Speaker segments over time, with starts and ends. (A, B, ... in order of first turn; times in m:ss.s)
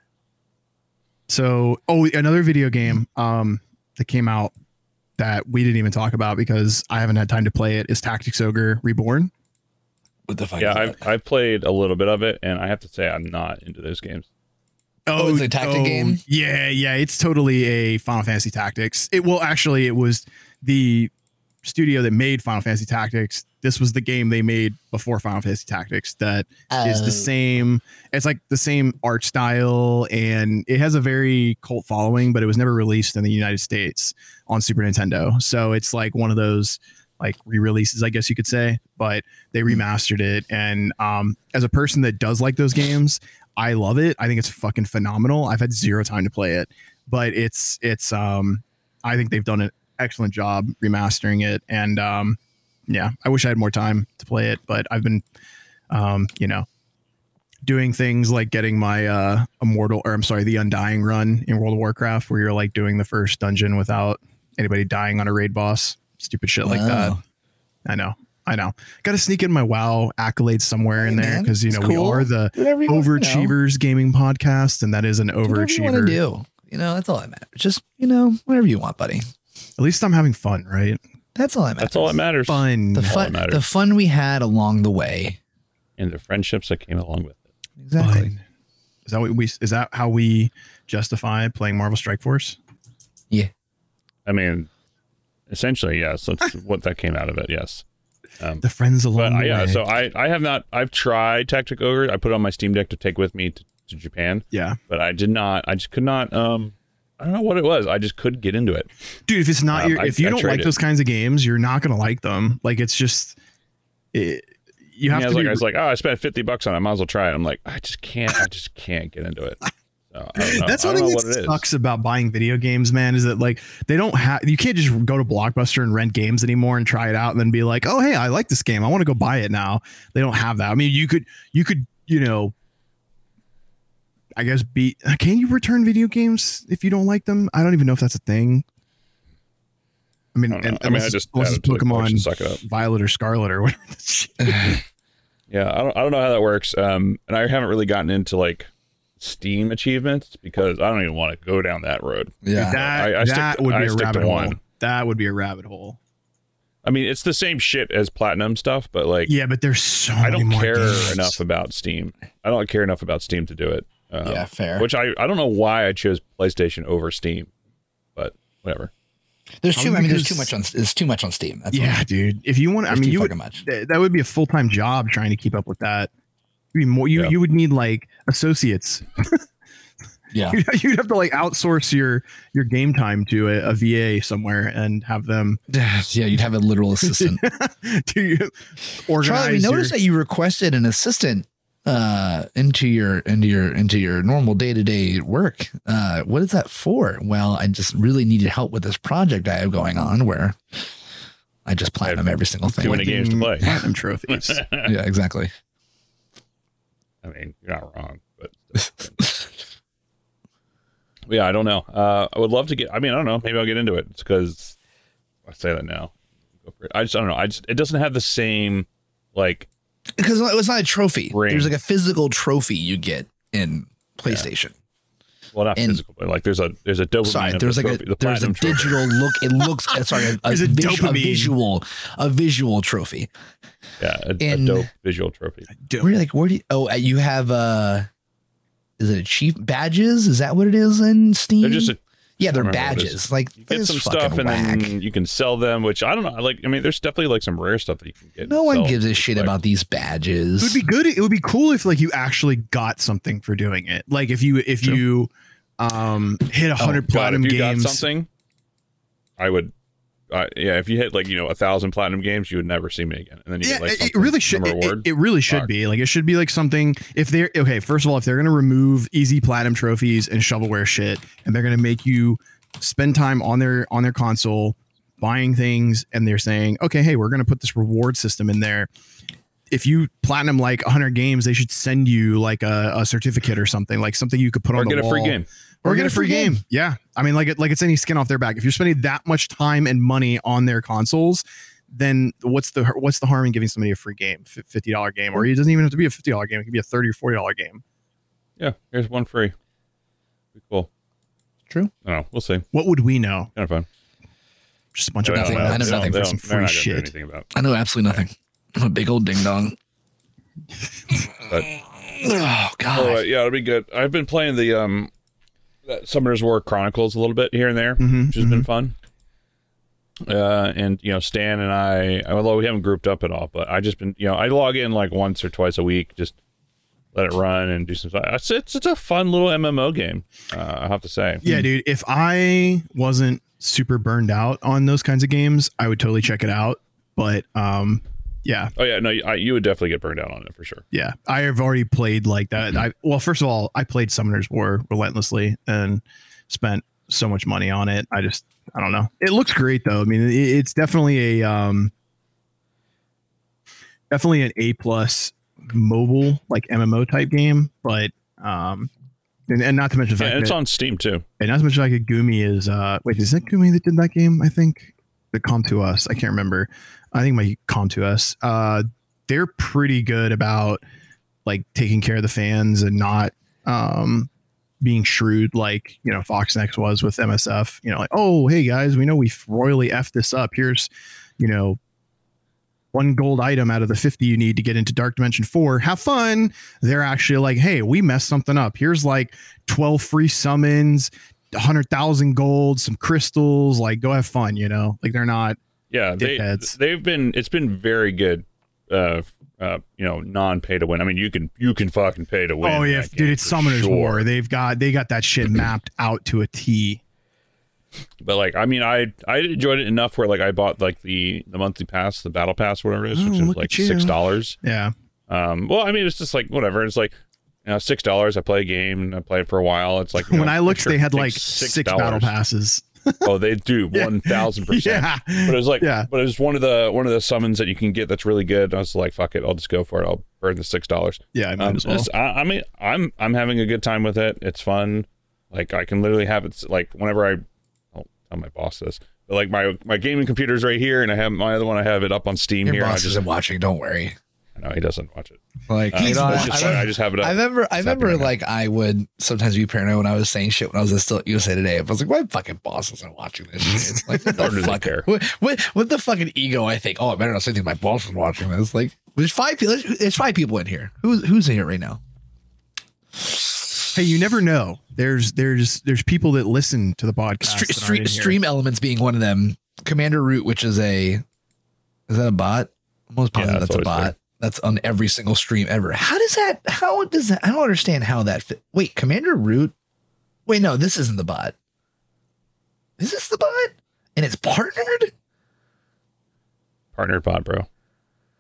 0:01.3-0:04.5 A
0:05.2-0:09.3 A
0:10.3-0:11.0 B
0:10.6-0:14.3 C
0:15.1-0:21.1 A
0:15.1-0:16.2 B
0:21.6-0:55.2 A
0:26.7-0:27.3 B
0:55.9-0:56.7 A
0:57.6-1:07.2 A
1:06.6-1:07.2 B
1:07.9-1:16.2 A
1:11.0-1:13.5 B
1:15.5-1:19.2 B
1:19.8-1:21.0 A
1:21.4-1:22.2 B
1:21.8-1:23.6 C
1:22.5-1:23.2 A
1:22.9-1:25.4 B
1:26.0-1:27.4 C
1:27.8-1:28.3 B
1:28.0-1:28.4 A
1:29.1-1:32.6 A
1:34.3-1:34.7 C
1:35.5-1:37.8 C
1:38.6-1:39.8 A
1:39.2-1:48.9 C
1:44.5-1:44.8 A
1:49.3-1:53.4 A
1:49.7-1:50.8 C
1:54.1-1:55.6 A
1:55.1-1:59.6 C
2:00.1-2:01.6 C
2:00.4-2:12.5 A
2:14.4-2:18.6 A
2:20.4-2:24.8 A
2:20.5-2:22.6 C
2:24.4-2:24.7 B
2:25.5-2:28.7 C
2:29.2-2:34.6 C
2:32.4-2:32.8 B
2:32.6-2:36.0 A
2:36.8-2:39.3 C
2:39.3-2:41.4 A
2:40.2-2:47.5 C
2:44.2-2:44.9 B
2:48.2-2:48.9 C
2:49.6-2:52.0 B
2:49.8-2:50.5 A
2:51.7-2:56.1 A
2:52.9-2:53.6 B
2:56.7-2:59.4 A
3:00.3-3:00.6 B
3:00.5-3:05.6 A
3:05.7-3:07.4 B
3:07.0-3:08.5 A
3:09.0-3:10.0 A
3:09.2-3:20.9 B
3:21.7-3:23.2 B
3:22.0-3:23.8 C
3:22.6-3:24.6 A
3:24.3-3:24.9 C
3:24.8-3:25.5 B
3:27.2-3:29.5 C
3:31.3-3:34.8 C
3:35.5-3:36.1 C
3:36.6-3:39.7 C
3:40.2-3:44.7 B
3:41.3-3:41.8 C
3:45.5-3:49.1 C
3:47.2-3:53.3 B
3:50.4-3:51.5 A
3:54.0-3:55.7 C
3:54.4-3:54.9 B
3:55.8-3:56.1 A
3:56.0-3:58.1 B
3:59.0-4:04.9 B
4:01.6-4:09.6 C
4:08.4-4:10.8 B
4:10.6-4:18.0 A
4:17.1-4:18.3 C
4:19.4-4:19.7 C
4:20.3-4:25.7 C
4:23.6-4:38.9 A
4:39.7-4:57.8 A
4:44.8-4:45.5 C
4:45.8-4:46.6 B
4:58.6-4:59.5 C
5:00.6-5:00.9 C
5:02.0-5:02.7 C
5:02.7-5:03.5 A
5:03.6-5:03.9 C
5:05.0-5:07.1 A
5:05.2-5:07.5 C
5:05.4-5:06.2 B
5:07.5-5:09.8 B
5:11.7-5:13.2 B
5:12.9-5:15.1 C
5:15.9-5:18.9 C
5:18.0-5:18.7 A
5:20.3-5:26.4 C
5:27.1-5:31.4 C
5:31.4-5:38.7 A
5:38.8-5:40.8 C
5:40.9-5:51.9 A
5:54.1-5:58.9 A
5:59.5-6:00.6 A
6:00.2-6:01.2 C
6:01.4-6:10.8 A
6:11.4-6:14.3 A
6:14.8-6:20.9 A
6:21.4-6:21.8 A
6:22.9-6:35.6 A
6:35.9-6:44.2 C
6:36.2-6:36.7 A
6:42.6-6:47.0 A
6:48.2-6:54.6 C
6:53.2-6:54.9 A
6:55.3-6:57.1 C
6:57.7-7:02.3 C
7:00.2-7:03.3 A
7:03.2-7:17.4 C
7:03.9-7:06.1 A
7:11.3-7:12.1 A
7:17.9-7:23.2 C
7:22.6-7:24.2 B
7:24.6-7:28.3 C
7:25.7-7:42.0 B
7:34.1-7:35.1 C
7:43.2-7:43.9 B
7:43.9-7:48.4 A
7:47.4-7:51.2 B
7:52.1-7:59.7 B
7:53.4-7:54.1 C
8:00.5-8:01.5 B
8:03.0-8:05.1 B
8:07.0-8:07.7 C